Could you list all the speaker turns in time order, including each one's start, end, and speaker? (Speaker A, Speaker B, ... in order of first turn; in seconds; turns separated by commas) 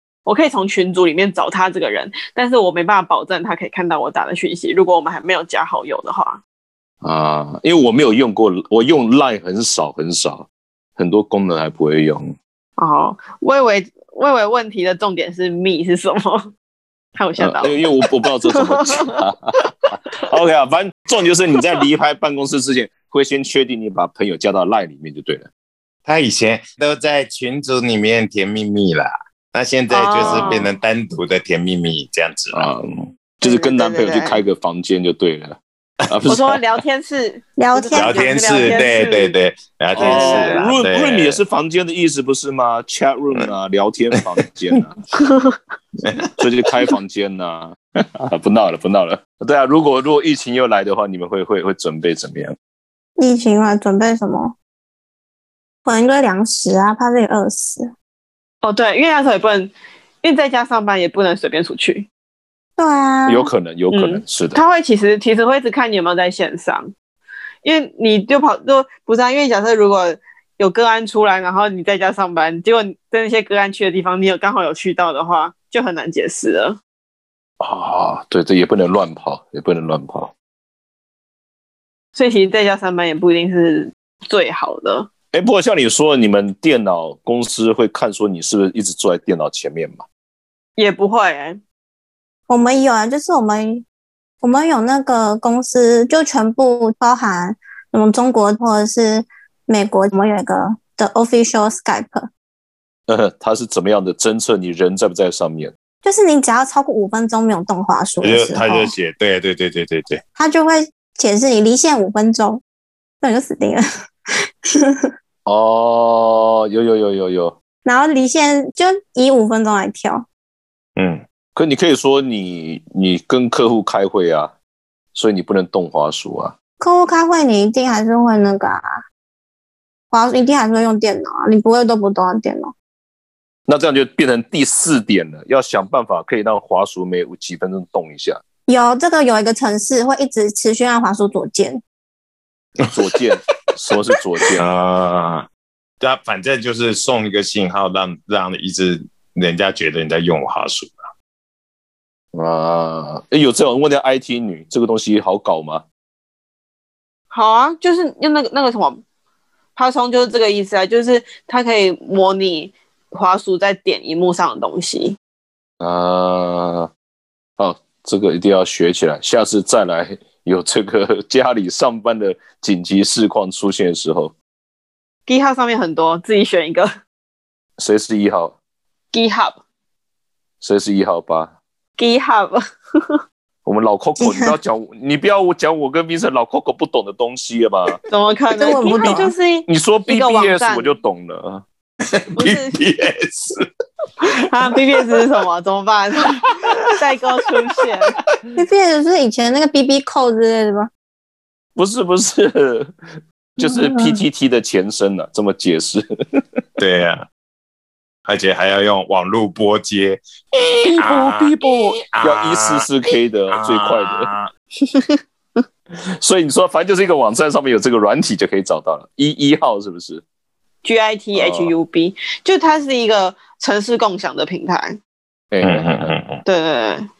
Speaker A: 0.3-6.4, Speaker B: 7.0-12.3, Speaker A: 12.8-16.5, Speaker A: 17.2-17.8, Speaker B: 17.4-25.5, Speaker A: 18.6-19.0, Speaker C: 26.1-32.7, Speaker A: 29.9-30.6, Speaker B: 30.2-30.7, Speaker B: 32.5-35.6, Speaker A: 33.5-34.4, Speaker B: 36.1-36.6, Speaker A: 36.3-39.4, Speaker D: 37.6-38.9, Speaker C: 37.9-41.4, Speaker B: 40.0-45.0, Speaker A: 40.0-40.8, Speaker C: 46.0-46.3, Speaker B: 46.4-52.6, Speaker D: 53.2-54.5, Speaker D: 55.9-57.9, Speaker A: 58.6-62.1, Speaker D: 62.8-63.5, Speaker B: 63.3-64.6, Speaker A: 63.9-66.9, Speaker A: 67.6-76.8, Speaker B: 77.6-80.3, Speaker A: 82.2-85.1, Speaker B: 85.3-90.0, Speaker A: 90.8-91.6, Speaker D: 92.5-93.8, Speaker D: 94.4-102.3, Speaker B: 103.1-105.7, Speaker D: 106.0-108.9, Speaker C: 108.2-110.2, Speaker D: 110.4-112.6, Speaker D: 113.2-113.8, Speaker B: 115.5-117.5, Speaker D: 117.8-120.3, Speaker C: 121.0-121.2, Speaker B: 121.5-124.5, Speaker B: 125.1-126.5, Speaker D: 126.8-128.8, Speaker D: 130.1-132.7, Speaker B: 133.7-138.4, Speaker D: 138.7-141.8, Speaker B: 142.9-144.6, Speaker C: 144.5-145.5, Speaker C: 146.0-150.9, Speaker B: 152.3-155.8, Speaker A: 157.3-159.0, Speaker A: 159.8-165.2, Speaker B: 165.8-166.9, Speaker B: 167.6-174.3, Speaker A: 175.3-176.9, Speaker B: 177.8-178.6, Speaker A: 179.1-179.6, Speaker B: 180.6-181.6, Speaker A: 182.0-182.6, Speaker B: 183.7-188.0, Speaker D: 184.2-184.6, Speaker A: 188.1-190.9, Speaker D: 188.6-189.3, Speaker B: 189.7-191.6, Speaker C: 192.1-193.7, Speaker A: 192.4-192.8, Speaker A: 194.5-196.4, Speaker C: 194.9-195.2, Speaker C: 196.4-196.9, Speaker A: 197.0-198.1, Speaker D: 198.6-200.9, Speaker B: 201.8-202.9, Speaker B: 203.6-206.1, Speaker D: 203.6-204.1, Speaker C: 206.8-207.3, Speaker C: 208.3-210.2, Speaker B: 210.6-214.3, Speaker C: 211.0-212.9, Speaker C: 213.5-214.5, Speaker B: 216.2-220.2, Speaker A: 220.8-225.0, Speaker B: 221.3-221.8, Speaker B: 225.5-226.1, Speaker C: 225.6-226.4, Speaker A: 226.4-227.1